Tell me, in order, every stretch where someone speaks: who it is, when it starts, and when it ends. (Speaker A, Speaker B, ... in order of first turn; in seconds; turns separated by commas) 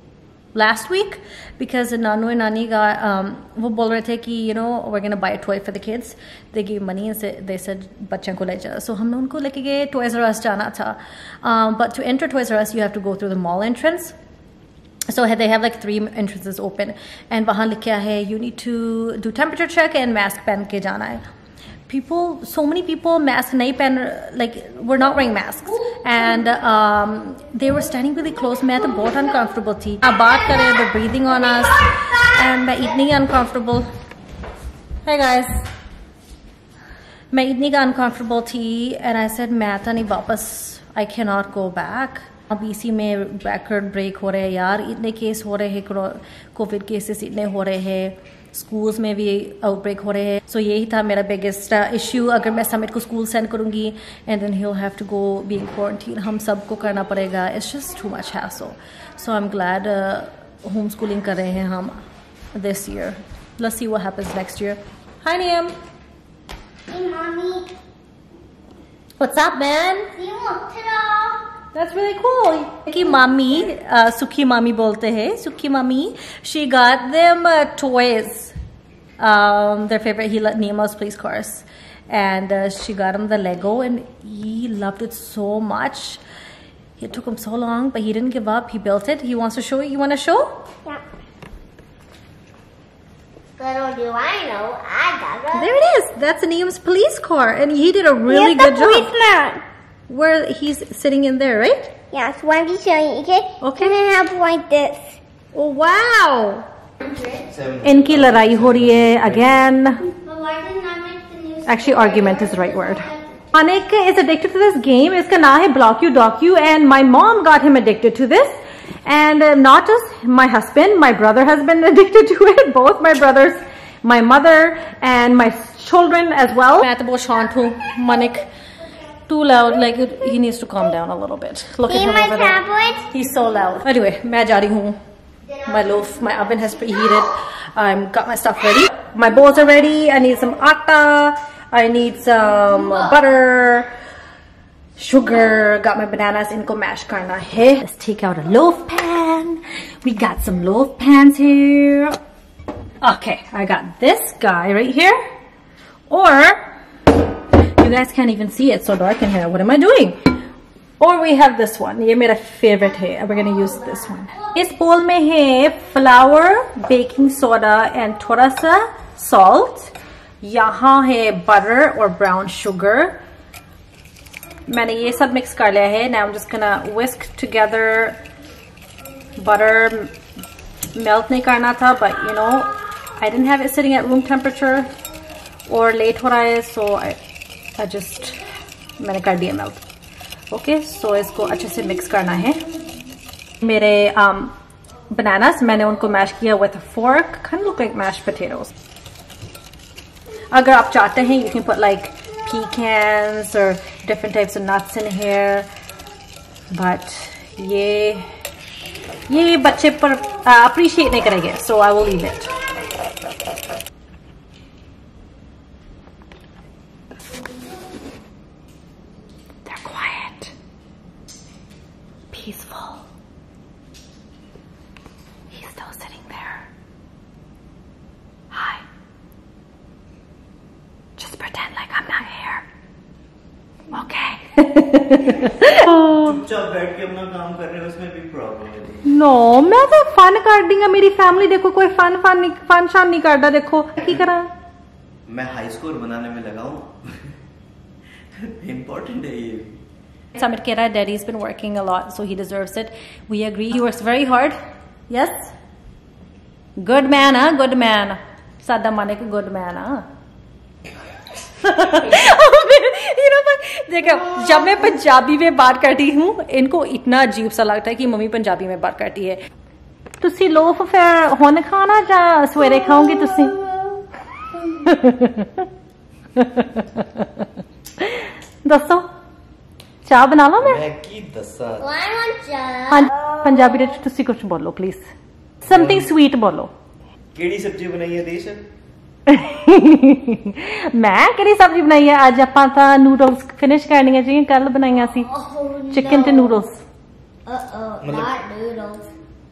Speaker A: 0.5-14.1, Speaker A: 15.1-21.2, Speaker A: 21.9-33.9, Speaker A: 35.0-35.7, Speaker A: 37.3-62.0, Speaker A: 62.5-65.7, Speaker B: 66.9-67.7, Speaker A: 69.2-70.1, Speaker B: 70.2-71.4, Speaker A: 71.7-78.5, Speaker A: 79.2-86.2, Speaker A: 87.0-90.5, Speaker B: 93.6-95.7, Speaker A: 95.5-99.1, Speaker B: 98.3-99.6, Speaker A: 100.1-101.9, Speaker B: 102.1-105.2, Speaker A: 103.6-104.0, Speaker A: 105.5-106.7, Speaker C: 107.5-109.7, Speaker A: 107.8-110.1, Speaker B: 110.1-113.3, Speaker A: 111.7-128.5, Speaker A: 129.3-135.0, Speaker B: 131.9-133.1, Speaker A: 135.6-143.9, Speaker A: 145.0-152.2, Speaker A: 153.0-155.2, Speaker A: 156.1-156.7, Speaker A: 157.8-160.2, Speaker A: 161.0-173.2, Speaker A: 174.7-178.2, Speaker A: 179.4-180.1, Speaker A: 180.9-184.9, Speaker A: 185.7-187.2, Speaker A: 187.8-188.4, Speaker A: 189.0-189.8, Speaker A: 190.5-192.6, Speaker A: 193.6-194.5, Speaker A: 195.1-198.7, Speaker A: 200.5-205.7, Speaker A: 206.7-208.2, Speaker A: 209.3-212.5, Speaker A: 219.7-220.5, Speaker A: 222.3-223.0, Speaker A: 225.5-226.7, Speaker A: 228.5-228.8, Speaker A: 231.2-232.6, Speaker A: 233.9-236.4, Speaker C: 235.2-239.1, Speaker A: 239.1-244.5, Speaker C: 245.3-247.1, Speaker C: 248.3-249.8, Speaker A: 250.3-254.6, Speaker A: 255.1-255.5, Speaker A: 256.8-260.1, Speaker A: 261.6-269.4, Speaker A: 270.2-273.6, Speaker B: 273.4-273.7, Speaker A: 274.8-275.7, Speaker A: 276.4-277.5, Speaker A: 278.0-279.1, Speaker A: 280.1-280.8, Speaker C: 280.6-281.9, Speaker B: 281.8-283.8, Speaker A: 282.9-285.1, Speaker A: 285.6-286.7, Speaker C: 285.7-286.1, Speaker C: 287.4-288.7, Speaker A: 289.3-295.3, Speaker B: 295.2-296.6, Speaker A: 295.9-296.8, Speaker B: 297.5-299.1, Speaker C: 298.0-298.3